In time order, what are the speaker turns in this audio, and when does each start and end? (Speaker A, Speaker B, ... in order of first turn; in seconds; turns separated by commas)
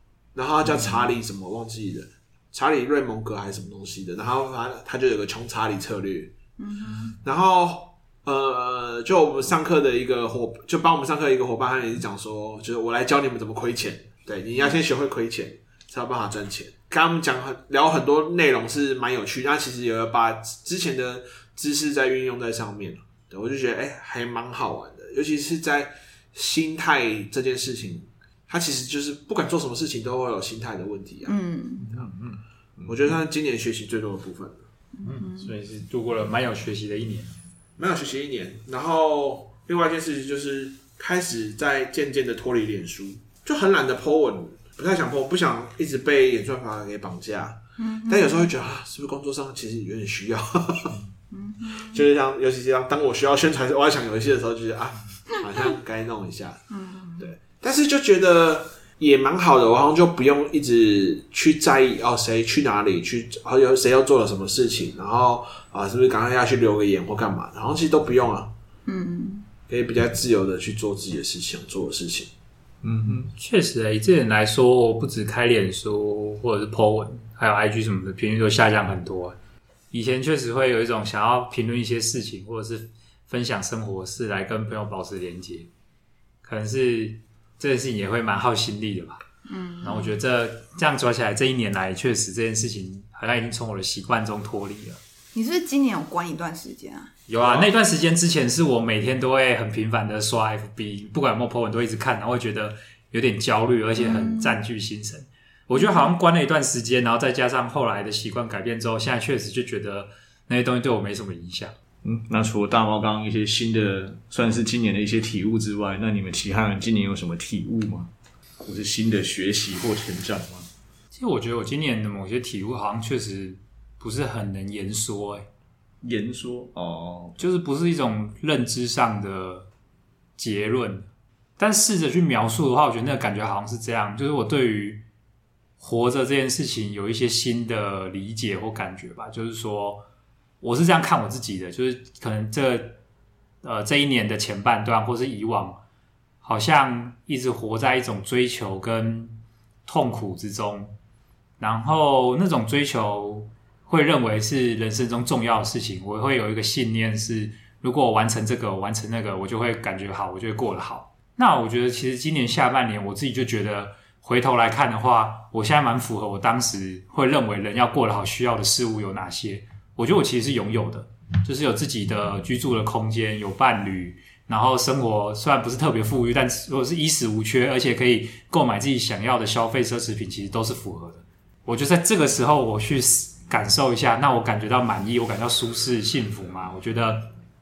Speaker A: 0.3-6.3, Speaker B: 6.6-7.2, Speaker A: 7.2-31.4, Speaker B: 31.2-31.9, Speaker C: 31.8-32.4, Speaker A: 32.9-34.6, Speaker B: 35.0-35.5, Speaker C: 35.0-37.3, Speaker A: 37.8-50.9, Speaker B: 47.8-48.5, Speaker B: 51.3-52.0, Speaker A: 51.8-56.6, Speaker B: 56.7-57.3, Speaker A: 57.2-68.5, Speaker B: 68.9-69.4, Speaker A: 69.7-72.3, Speaker D: 72.8-73.3, Speaker C: 73.3-79.3, Speaker C: 79.9-85.7, Speaker C: 86.4-89.2, Speaker B: 89.5-90.1, Speaker C: 89.8-95.0, Speaker B: 95.3-97.1, Speaker C: 97.3-111.7, Speaker A: 97.4-97.7, Speaker B: 104.0-104.5, Speaker B: 105.7-106.2, Speaker D: 112.0-118.1, Speaker D: 118.6-120.7, Speaker C: 121.1-125.5, Speaker D: 126.0-127.4, Speaker C: 127.4-129.7, Speaker C: 130.4-131.1, Speaker C: 131.6-135.0, Speaker C: 135.8-140.0, Speaker C: 140.6-143.0, Speaker C: 143.6-145.8, Speaker C: 146.4-150.9, Speaker C: 151.6-187.3